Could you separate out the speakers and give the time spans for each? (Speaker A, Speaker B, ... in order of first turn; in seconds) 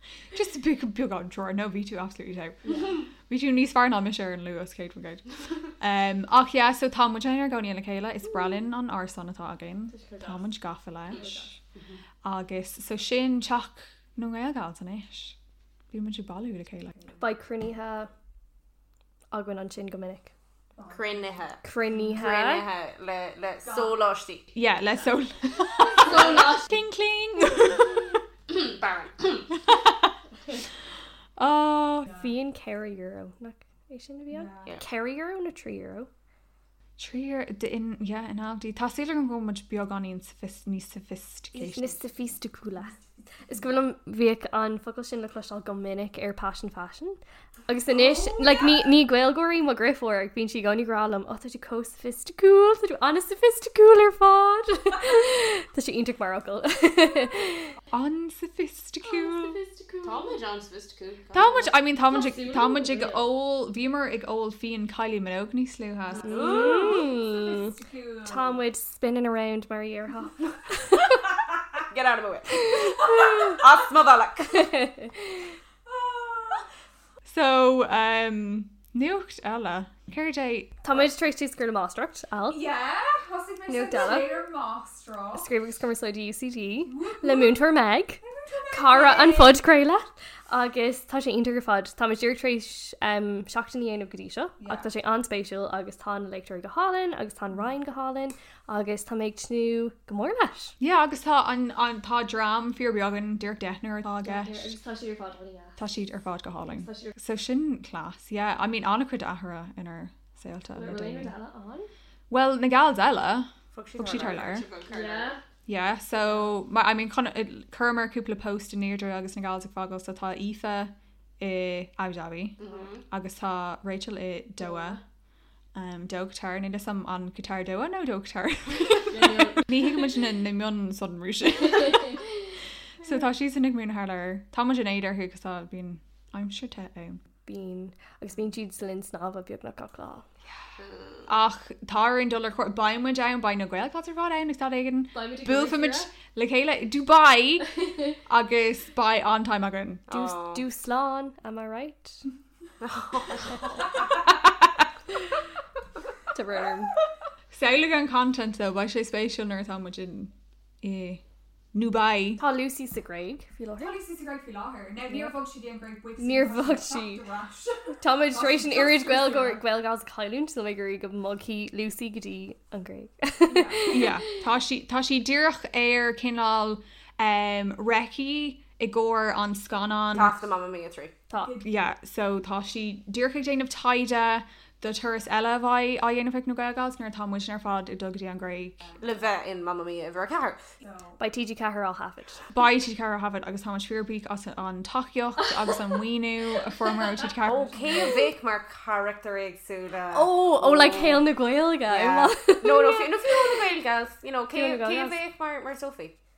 Speaker A: 0.3-11.5, 12.2-15.3, 15.9-17.2, 23.6-23.9, 24.5-28.2, 29.5-30.1, 31.4-32.3, 34.3-34.7, 37.0-42.3, 47.9-48.7, 57.9-59.6, 61.3-68.6, 75.9-76.6, 77.3-81.0, 82.5-85.5, 86.8-87.6, 88.2-89.6, 94.6-94.8, 100.8-104.7, 105.8-111.3, 112.3-114.7, 115.7-125.0, 125.7-132.2, 133.0-137.2, 141.2-147.8, 148.3-150.0, 153.8-154.3, 157.5-161.2, 161.7-162.4, 163.8-169.6, 173.5-180.4, 181.4-189.0, 190.8-191.2, 192.5-198.2
Speaker B: 2.6-3.0, 9.9-10.5, 11.1-11.4, 17.2-18.1, 19.3-20.3, 21.6-22.6, 25.9-26.8, 32.1-36.1, 41.5-43.0, 43.5-57.7, 59.0-60.4, 62.0-63.2, 66.2-71.3, 72.5-73.6, 74.4-75.5, 80.8-82.6, 83.7-84.5, 85.3-100.7, 104.2-105.8, 106.7-107.1, 110.7-111.9, 114.9-115.4, 124.6-125.0, 129.1-129.7, 137.4-140.2, 145.1-146.1, 147.8-148.2, 150.1-152.2, 156.3-156.9, 162.4-163.9, 165.1-165.3, 166.2-167.2, 168.0-174.2, 181.3-181.5, 191.2-192.4, 197.9-198.2, 200.1-203.6, 204.5-205.2
Speaker C: 11.7-12.0, 20.9-21.6, 22.1-24.5, 28.5-29.5, 60.0-61.6, 66.1-67.0, 71.9-74.6, 113.7-115.3, 122.6-123.0, 140.8-141.3, 150.1-150.6, 152.8-153.6, 180.1-181.1, 189.0-190.6, 197.4-201.3, 201.9-206.1